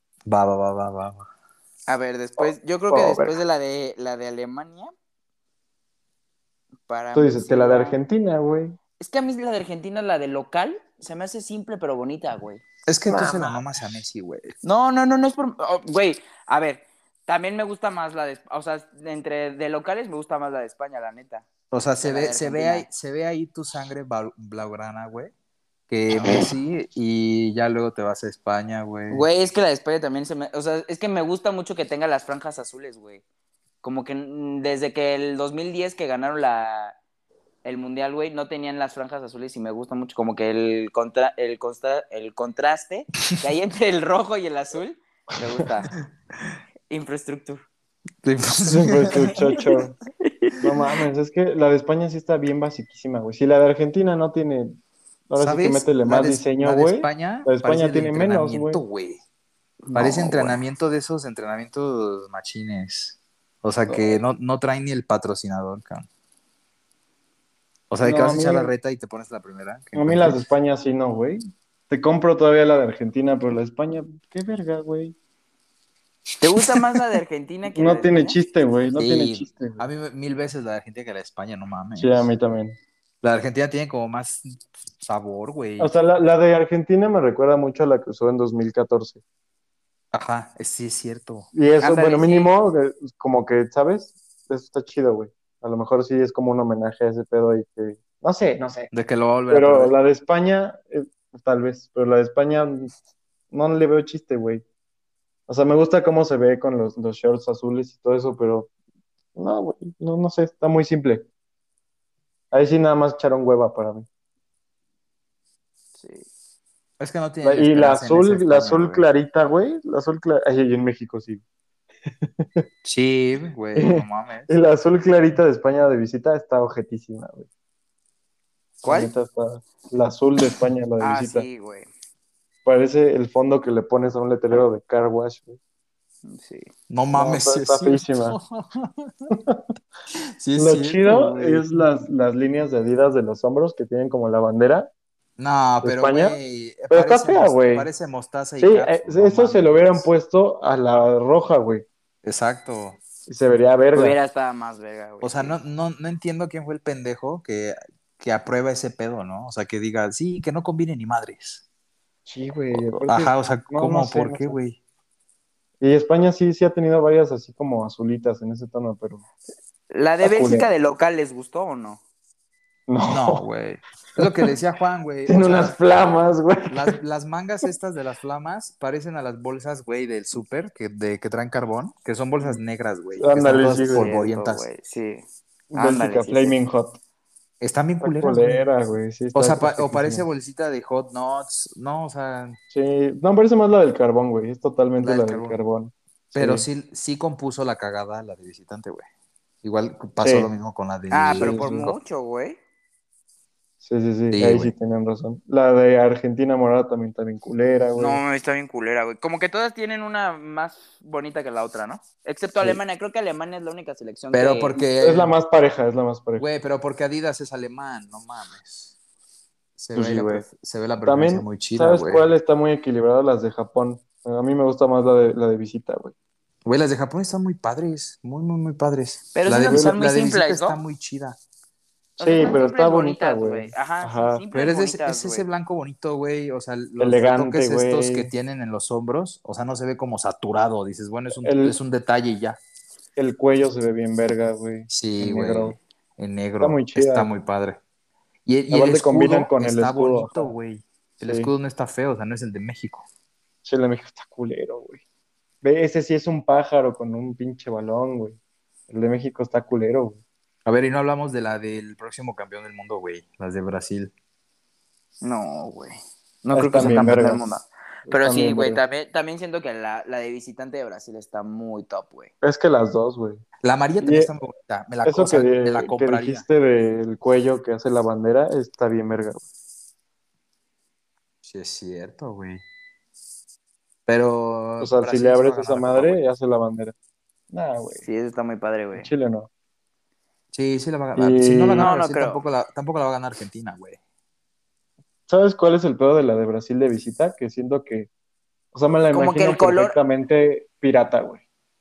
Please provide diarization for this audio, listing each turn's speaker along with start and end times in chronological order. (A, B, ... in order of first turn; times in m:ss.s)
0:00.2-0:01.3 A
0:01.9-0:04.9 B
0:02.4-0:03.4 C
0:06.9-0:08.0 B
0:07.1-0:08.8 C
0:09.0-0:12.6 B
0:12.9-0:14.5 A
0:13.1-0:13.6 C
0:14.6-0:21.4 B
0:21.7-0:25.3 A
0:22.0-0:22.8 B
0:25.9-0:29.2 A
0:29.1-0:33.2 B
0:33.8-0:37.0 B
0:37.6-0:45.9 B
0:46.9-0:47.6 B
0:48.2-0:49.7 A
0:48.6-0:50.0 C
0:50.2-0:50.5 B
0:50.6-0:58.8 C
0:55.4-0:59.2 A
0:59.9-1:00.4 B
0:59.9-1:06.1 A
1:00.0-1:00.4 C
1:03.9-1:04.1 C
1:07.9-1:10.4 A
1:08.0-1:08.7 C
1:09.9-1:15.1 C
1:16.4-1:18.4 B
1:17.7-1:19.8 C
1:19.0-1:22.3 A
1:22.0-1:22.8 C
1:23.2-1:25.9 A
1:25.8-1:29.2 C
1:30.1-1:31.5 A
1:31.5-1:38.9 C
1:31.8-1:32.5 B
1:38.9-1:39.9 A
1:39.5-1:42.9 C
1:43.5-1:44.6 C
1:45.5-1:48.7 C
1:49.3-1:51.3 C
1:52.5-1:54.1 C
1:55.9-1:56.3 B
1:57.0-1:59.0 A
1:57.4-2:01.4 C
2:02.2-2:02.6 C
2:02.8-2:04.5 A
2:03.8-2:07.5 C
2:08.8-2:09.1 B
2:08.8-2:11.5 C
2:11.0-2:11.9 B
2:12.6-2:15.6 C
2:16.2-2:16.7 B
2:16.9-2:19.3 A
2:17.1-2:18.4 C
2:19.3-2:19.6 C
2:20.4-2:21.6 A
2:20.6-2:24.9 C
2:25.4-2:30.1 A
2:25.8-2:26.4 C
2:26.9-2:27.9 C
2:28.6-2:31.8 C
2:32.2-2:33.0 A
2:33.3-2:34.2 C
2:33.9-2:35.6 B
2:35.2-2:41.6 A
2:42.2-2:44.6 C
2:42.7-2:44.8 A
2:45.8-2:49.2 C
2:49.9-2:52.0 B
2:50.2-2:50.7 C
2:52.9-2:53.4 C
2:53.1-2:55.8 A
2:54.2-2:54.5 C
2:55.3-2:56.9 C
2:56.7-3:04.6 A
3:03.2-3:04.1 C
3:03.9-3:05.2 B
3:05.7-3:07.0 C
3:05.7-3:06.6 B
3:07.6-3:08.6 A
3:08.0-3:10.2 C
3:09.3-3:12.6 A
3:12.7-3:16.7 C
3:15.0-3:15.6 A
3:16.3-3:19.1 A
3:19.6-3:21.9 A
3:20.2-3:20.5 C
3:21.1-3:22.6 B
3:21.4-3:21.9 C
3:23.8-3:28.2 C
3:24.3-3:24.7 A
3:28.0-3:34.8 B
3:34.3-3:35.3 A
3:35.0-3:36.4 C
3:36.4-3:38.9 A
3:39.8-3:42.3 A
3:39.9-3:40.4 C
3:41.0-3:46.1 C
3:46.6-3:51.4 A
3:49.3-3:50.8 B
3:49.7-3:50.0 C
3:52.2-3:55.4 B
3:52.2-3:54.4 C
3:54.5-4:02.6 A
3:57.0-3:58.3 C
4:01.3-4:01.8 C
4:03.2-4:05.8 C
4:04.9-4:07.8 A
4:06.6-4:07.3 C
4:08.4-4:13.0 A
4:08.7-4:10.5 C
4:11.2-4:11.5 C
4:13.6-4:15.0 C
4:15.6-4:18.4 C
4:18.9-4:20.2 C
4:20.6-4:24.1 A
4:25.2-4:32.3 B
4:26.5-4:27.4 C
4:28.1-4:28.8 C
4:32.4-4:33.4 C
4:33.6-4:36.4 A
4:34.0-4:34.3 C
4:35.0-4:39.4 C
4:41.4-4:42.6 A
4:44.1-4:46.2 A
4:44.8-4:46.9 C
4:47.5-4:48.1 C
4:48.0-4:49.1 B
4:48.9-4:49.5 C
4:50.5-4:54.0 A
4:51.2-4:51.9 C
4:51.8-4:52.4 B
4:55.3-4:58.1 C
4:58.7-5:01.4 C
4:59.1-5:00.0 B